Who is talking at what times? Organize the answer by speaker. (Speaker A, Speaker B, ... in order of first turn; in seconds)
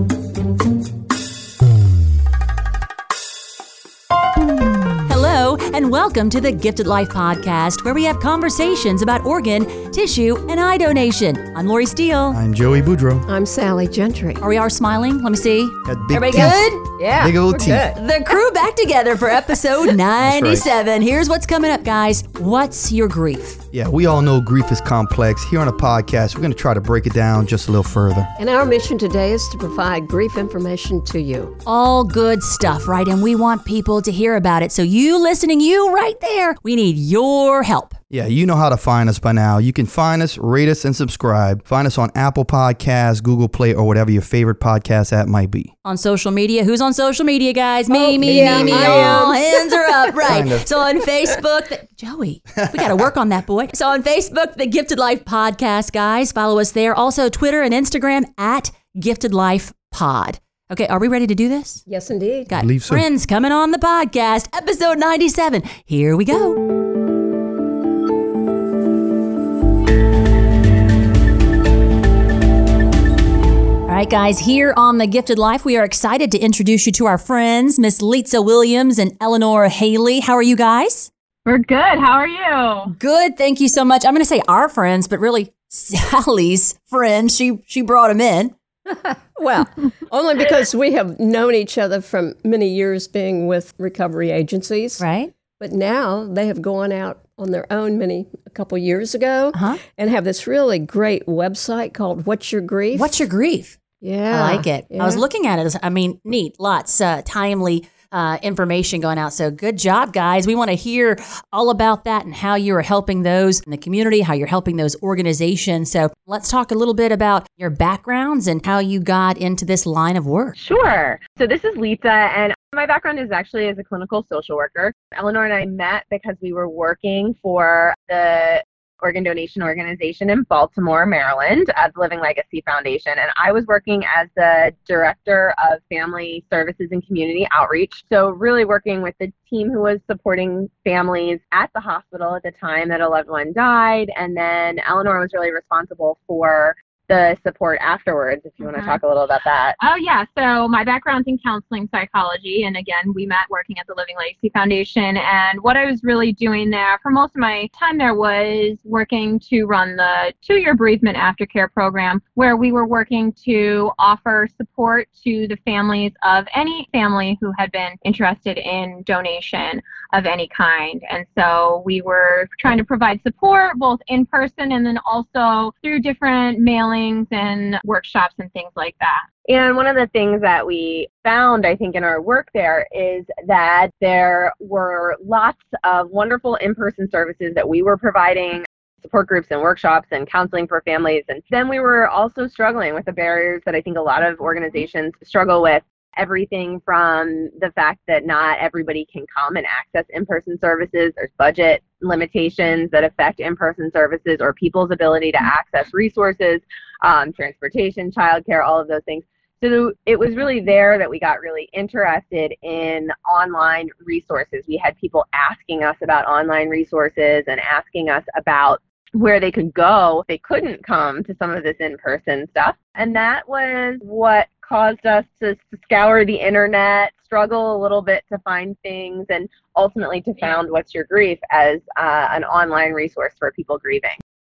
Speaker A: 5.0-12.4, 14.4-16.9, 17.9-23.6, 31.6-38.0, 45.8-61.8, 62.5-66.6, 73.8-81.1, 82.9-88.5, 95.0-95.3, 99.5-99.8, 102.9-120.5
Speaker B: 12.3-13.2, 15.8-16.6, 17.1-17.9, 20.2-20.6, 23.7-28.3, 38.1-45.7, 48.2-49.3, 50.2-50.7, 52.5-53.1, 62.5-63.0
Speaker C: 13.3-14.4, 16.3-18.0, 28.4-31.5, 47.9-49.4, 61.9-62.5, 88.9-95.0, 95.6-103.2, 104.0-105.2
Speaker D: 81.5-82.9, 148.6-149.0, 149.8-179.2
Speaker E: 120.5-149.8, 179.5-234.2